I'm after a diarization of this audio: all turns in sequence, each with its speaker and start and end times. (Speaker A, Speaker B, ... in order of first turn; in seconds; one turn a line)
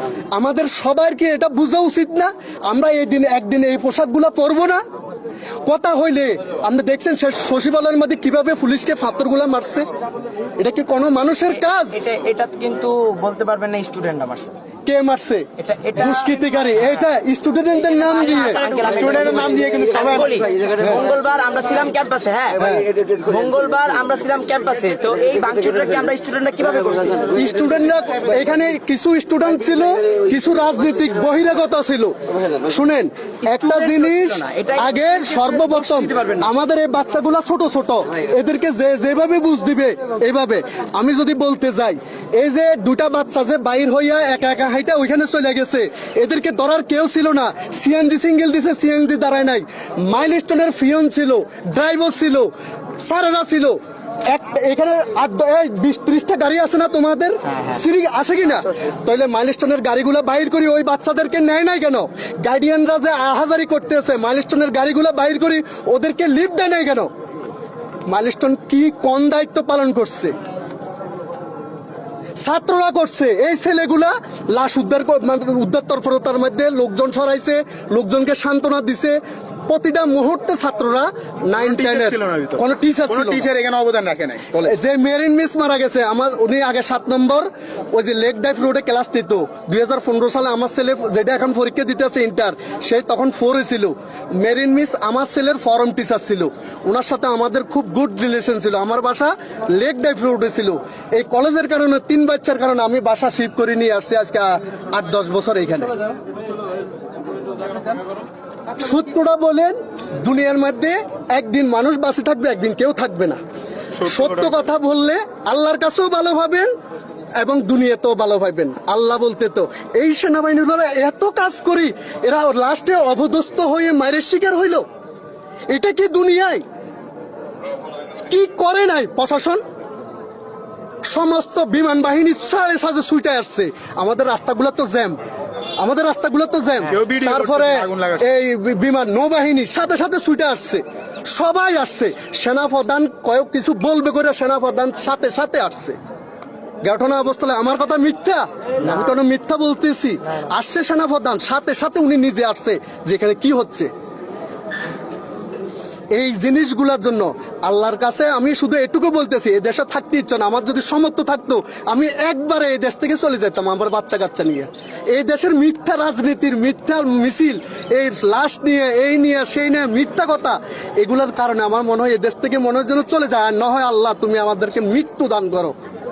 Speaker A: 0.3-4.8
Speaker A: 5.6-9.9
Speaker A: 10.6-12.1
Speaker B: 11.8-14.5
Speaker A: 14.8-18.7
Speaker B: 15.6-17.1
Speaker B: 18.0-27.4
Speaker C: 18.6-20.3
Speaker A: 20.8-21.0
Speaker A: 22.6-22.9
Speaker A: 27.3-67.1
Speaker B: 33.5-36.5
Speaker A: 68.0-70.3
Speaker A: 72.4-83.5
Speaker C: 81.6-84.7
Speaker A: 84.6-106.0
Speaker A: 108.7-113.4
Speaker A: 113.9-116.7
Speaker A: 117.4-124.8
Speaker A: 125.7-126.6
Speaker A: 128.3-129.6
Speaker A: 131.0-135.2
Speaker A: 135.8-146.0
Speaker C: 136.9-138.2
Speaker A: 146.8-153.9
Speaker A: 156.1-175.8